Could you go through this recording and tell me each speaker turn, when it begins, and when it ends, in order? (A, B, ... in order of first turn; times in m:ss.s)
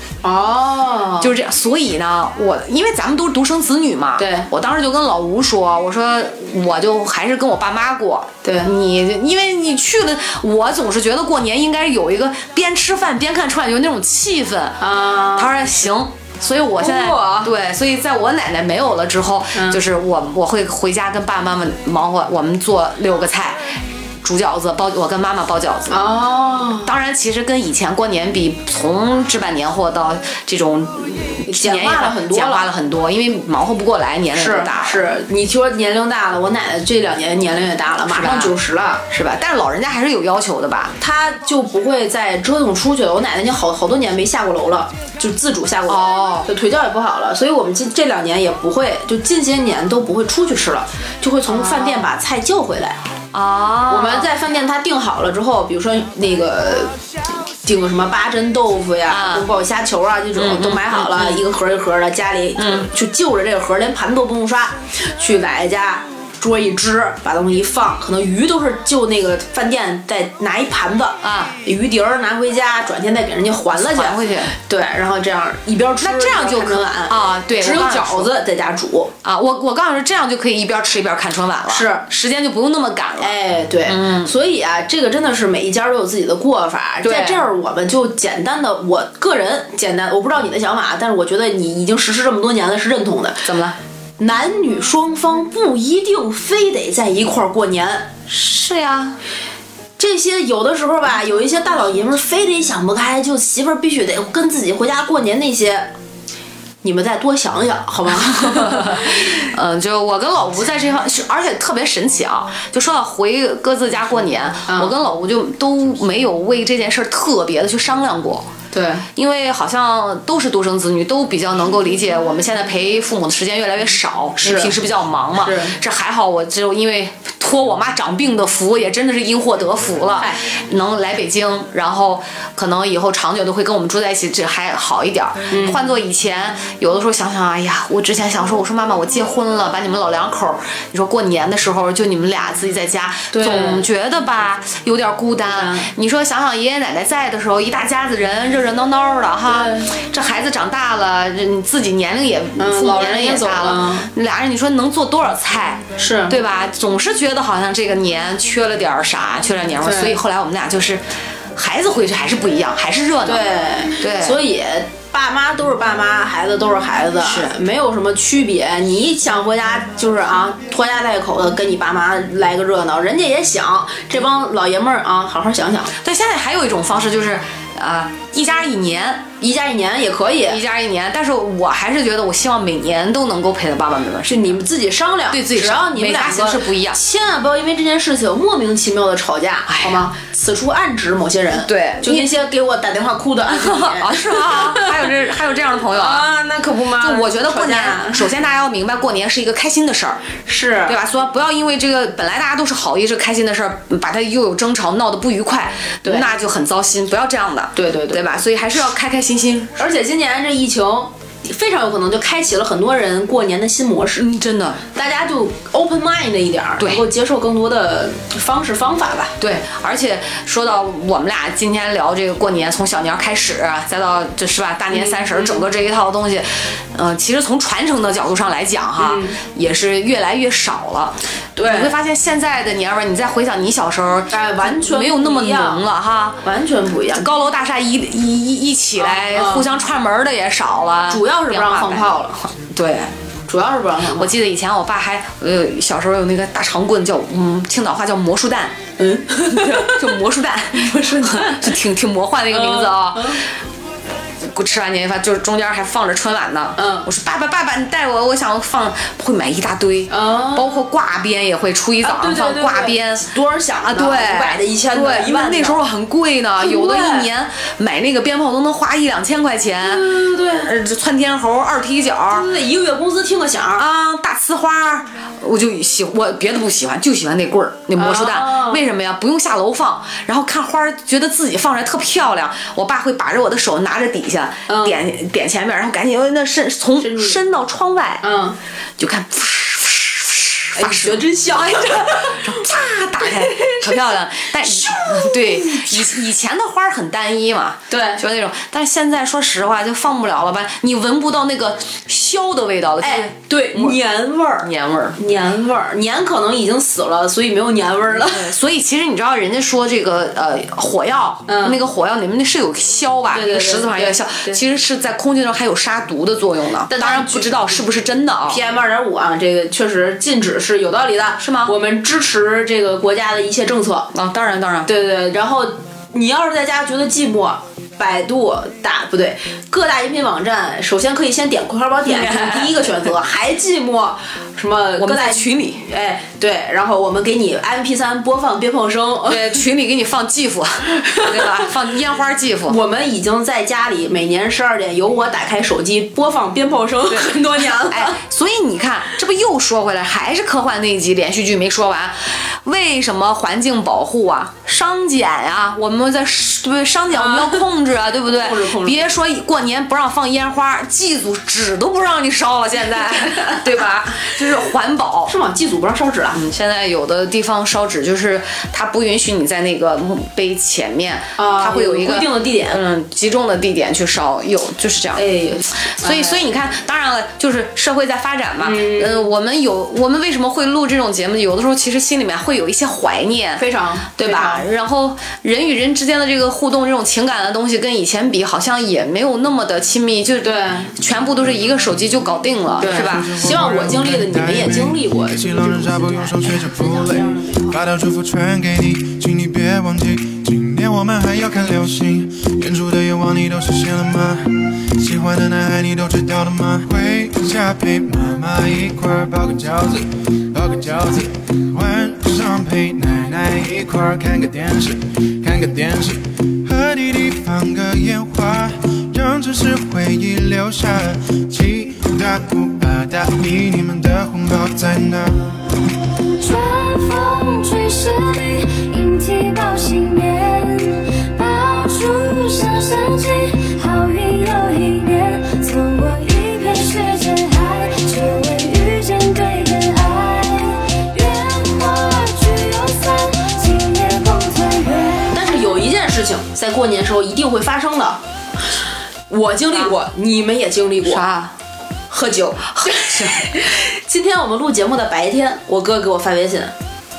0:00.2-0:01.3 A
0:01.2-0:23.6 B
0:04.2-0:04.5 A
0:08.4-0:08.7 A
0:14.8-0:15.5 A
0:16.8-0:17.5 A
0:19.5-0:19.8 A
0:24.2-0:26.1 B
0:25.9-0:26.9 A
0:26.8-0:35.0 B
0:31.5-0:32.7 A
0:34.3-0:39.0 A
0:38.1-0:38.6 B
0:39.1-0:40.9 B
0:41.0-0:53.0 A
0:45.9-0:46.5 B
0:51.5-0:52.1 B
0:53.3-0:54.3 B
0:53.9-0:57.0 A
0:57.6-1:19.1 A
0:59.1-0:59.5 B
1:00.4-1:01.4 B
1:02.6-1:02.9 B
1:11.2-1:11.6 B
1:13.8-1:14.6 B
1:16.0-1:18.3 B
1:19.2-1:24.3 B
1:21.7-1:22.0 A
1:23.2-1:33.5 A
1:27.0-1:27.5 B
1:33.4-1:33.8 B
1:34.2-1:38.1 A
1:38.3-1:39.2 B
1:40.0-1:45.9 A
1:46.8-1:49.3 A
1:48.2-1:58.5 B
1:54.7-1:54.9 A
1:58.7-1:59.1 A
1:59.2-2:41.0 B
2:04.4-2:04.8 A
2:05.4-2:05.8 A
2:10.2-2:10.4 A
2:15.5-2:15.8 A
2:23.3-2:23.8 A
2:25.5-2:25.9 A
2:29.5-2:29.9 A
2:32.6-2:34.1 A
2:36.0-2:36.4 A
2:39.8-2:40.2 A
2:41.6-2:43.5 B
2:43.2-2:55.9 A
2:44.0-2:44.4 B
2:47.2-2:47.5 B
2:56.0-2:59.3 B
2:59.4-3:00.6 A
3:00.5-3:04.6 B
3:04.3-3:15.1 A
3:05.3-3:07.0 B
3:09.7-3:10.1 B
3:11.6-3:12.3 B
3:13.5-3:16.3 B
3:15.9-3:18.3 A
3:16.9-3:20.2 B
3:20.5-3:21.0 A
3:20.9-3:29.8 B
3:27.8-3:28.2 A
3:29.8-3:34.2 A
3:34.2-3:34.8 B
3:34.9-3:39.3 A
3:36.8-3:37.0 B
3:39.4-3:56.4 B
3:44.9-3:45.7 A
3:49.0-3:49.4 A
3:51.6-3:51.9 A
3:54.3-3:55.8 A
3:56.4-3:57.3 A
3:57.1-4:03.1 B
3:59.0-3:59.7 A
4:01.1-4:02.4 A
4:03.5-4:04.3 A
4:04.2-4:08.8 B
4:09.0-4:10.2 A
4:09.5-4:13.4 B
4:10.8-4:11.7 A
4:12.5-4:13.4 A
4:14.4-4:23.2 B
4:16.8-4:17.1 A
4:20.1-4:20.7 A
4:22.0-4:25.8 A
4:23.8-4:32.5 B
4:26.6-4:27.3 A
4:29.8-4:30.7 A
4:32.3-4:33.8 A
4:33.8-4:48.2 B
4:38.0-4:38.8 A
4:44.7-4:45.0 A
4:47.0-4:47.4 A
4:48.2-4:48.6 A
4:49.0-5:04.0 B
4:50.8-4:52.6 A
4:53.2-4:56.2 A
4:57.9-4:58.2 A
5:03.0-5:08.5 A
5:04.6-5:05.2 B
5:08.2-5:18.6 B
5:11.5-5:11.8 A
5:13.3-5:14.6 A
5:16.9-5:17.8 A
5:18.5-5:24.1 A
5:21.4-5:21.7 B
5:24.1-5:24.9 B
5:24.9-5:39.6 A
5:32.0-5:33.1 B
5:35.0-5:35.8 B
5:39.3-5:42.8 B
5:41.0-5:41.7 A
5:42.7-5:48.2 A
5:47.1-6:05.3 B
5:57.1-5:57.7 A
5:58.3-5:59.1 A
6:03.2-6:03.6 A
6:05.3-6:06.4 A
6:06.3-6:15.2 B
6:11.4-6:12.8 A
6:15.2-6:16.5 A
6:15.8-6:23.6 B
6:18.6-6:19.3 A
6:23.6-6:24.7 A
6:24.2-6:33.4 B
6:30.4-6:30.9 A
6:32.8-6:37.8 A
6:32.9-7:05.6 C
7:06.2-7:25.8 D
7:25.3-7:28.2 A
7:29.3-7:31.2 A
7:31.0-7:31.6 B
7:32.1-7:36.7 A
7:32.8-7:33.4 B